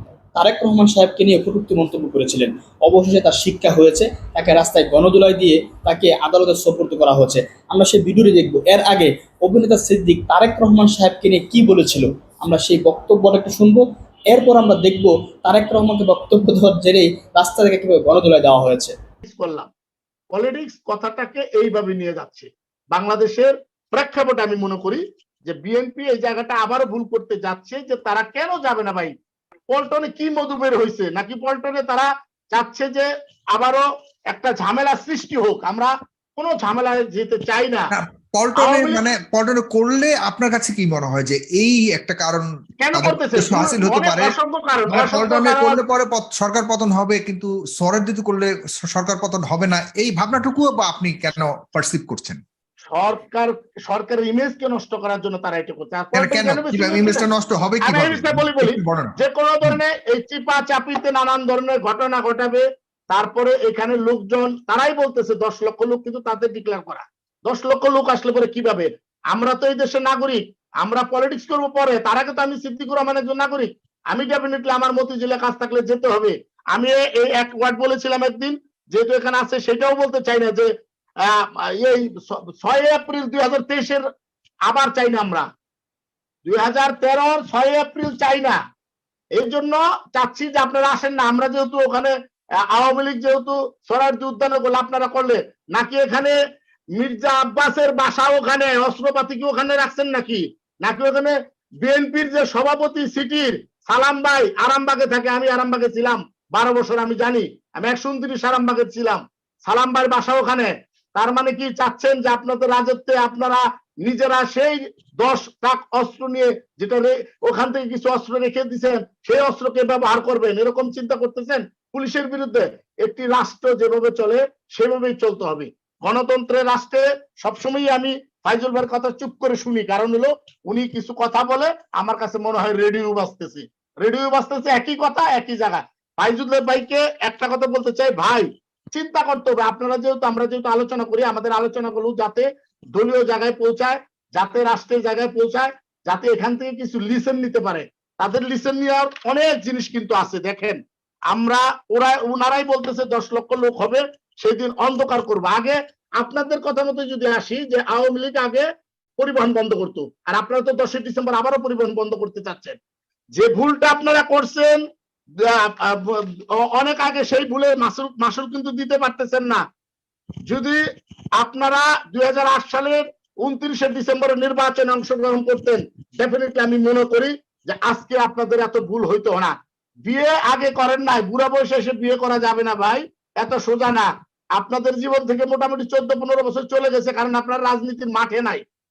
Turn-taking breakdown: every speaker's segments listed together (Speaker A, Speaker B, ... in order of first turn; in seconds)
Speaker A: 0.3-18.9
Speaker B: 19.2-19.7, 20.3-29.1, 29.7-37.9, 38.5-39.1, 42.8-45.8, 52.9-57.3, 57.8-80.7, 81.8-84.0, 84.7-85.5, 86.5-88.6, 89.4-92.1, 92.7-96.3, 97.0-158.7, 159.2-162.8, 163.3-164.8, 165.5-169.6, 170.5-170.8, 171.4-188.6
Speaker C: 37.9-44.4, 44.9-52.4, 56.1-59.2